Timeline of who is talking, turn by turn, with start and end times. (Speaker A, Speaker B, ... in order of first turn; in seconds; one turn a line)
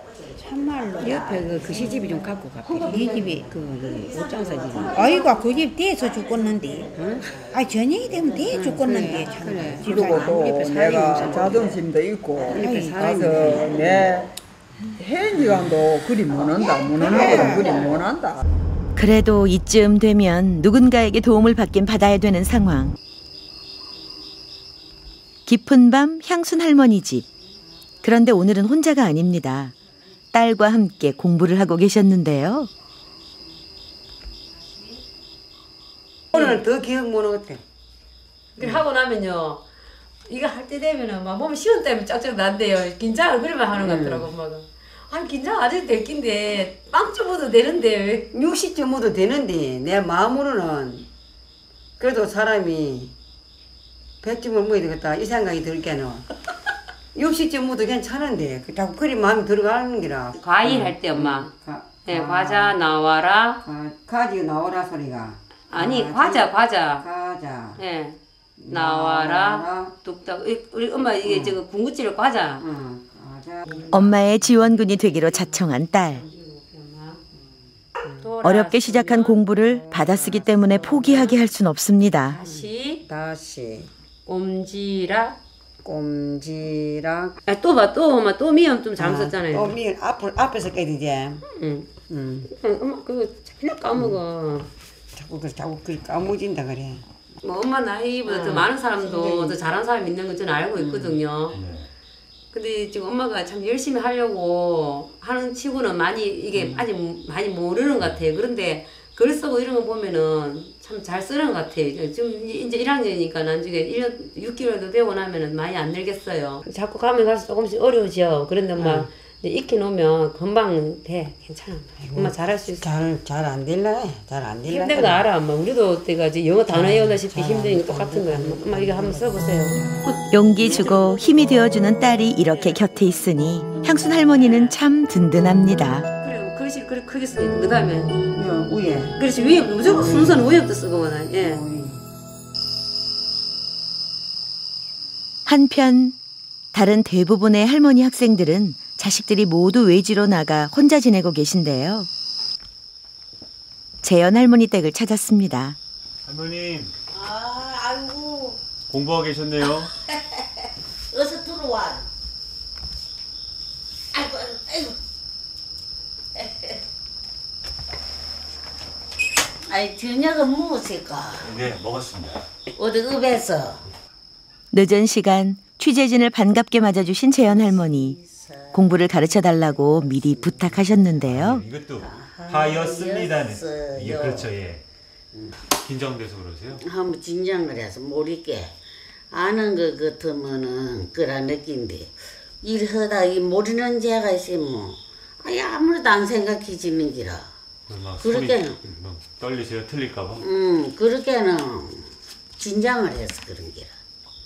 Speaker A: 0.4-3.5
Speaker B: 0.6-5.0
Speaker A: 4.8-11.8
Speaker B: 6.4-7.3
Speaker B: 8.5-9.9
Speaker C: 9.7-14.3
Speaker B: 11.2-11.6
Speaker A: 12.4-13.1
Speaker B: 12.5-14.1
Speaker C: 14.9-18.4
Speaker B: 15.3-15.8
Speaker A: 16.8-17.8
Speaker D: 18.9-22.9
Speaker D: 25.4-27.3
Speaker D: 28.0-29.7
Speaker D: 30.3-32.7
Speaker B: 36.3-37.6
Speaker E: 36.3-36.6
Speaker E: 38.6-39.6
Speaker E: 40.3-48.3
Speaker B: 43.7-44.3
Speaker B: 48.3-51.1
Speaker B: 52.0-53.1
Speaker B: 54.2-56.3
Speaker B: 57.1-62.8
Speaker E: 60.4-61.5
Speaker E: 62.0-63.6
Speaker B: 63.6-67.8
Speaker E: 65.7-67.0
Speaker E: 67.8-72.7
Speaker B: 68.6-69.9
Speaker B: 71.2-71.6
Speaker B: 72.6-74.1
Speaker D: 73.9-76.2
Speaker E: 75.0-77.2
Speaker B: 77.3-78.3
Speaker E: 78.2-79.4
Speaker D: 78.4-82.4
Speaker B: 79.5-81.3
Speaker E: 82.3-83.0
Speaker B: 82.4-83.9
Speaker E: 84.2-85.4
Speaker B: 85.8-87.3
Speaker E: 87.5-89.8
Speaker B: 89.0-91.4
Speaker E: 91.5-91.9
Speaker B: 92.1-92.5
Speaker E: 92.5-94.7
Speaker B: 93.9-94.2
Speaker B: 95.1-97.0
Speaker E: 97.4-101.6
Speaker B: 98.2-99.6
Speaker B: 100.8-101.2
Speaker F: 101.5-101.9
Speaker E: 102.5-122.9
Speaker B: 106.5-106.8
Speaker B: 118.8-119.1
Speaker B: 122.0-125.3
Speaker E: 124.7-129.8
Speaker B: 126.7-131.8
Speaker D: 130.3-136.1
Speaker E: 132.5-132.8
Speaker E: 134.1-134.8
Speaker E: 136.2-138.2
Speaker B: 138.3-139.1
Speaker E: 139.1-141.6
Speaker B: 139.8-140.5
Speaker B: 141.4-142.0
Speaker D: 145.4-146.2
Speaker D: 146.7-152.1
Speaker D: 154.0-155.8
Speaker F: 156.2-156.9
Speaker G: 157.1-158.6
Speaker F: 158.9-159.9
Speaker G: 159.6-160.2
Speaker G: 161.1-162.1
Speaker G: 164.1-164.9
Speaker G: 166.3-166.8
Speaker G: 169.7-171.5
Speaker F: 171.4-172.4
Speaker G: 172.8-173.8
Speaker D: 174.7-178.2
Speaker G: 177.4-181.1
Speaker D: 178.7-181.6
Speaker F: 181.2-184.8
Speaker G: 182.0-184.5
Speaker F: 185.7-186.8
Speaker G: 186.8-188.7
Speaker G: 189.3-197.5
Speaker F: 197.9-200.4
Speaker G: 198.2-198.8
Speaker G: 200.4-203.9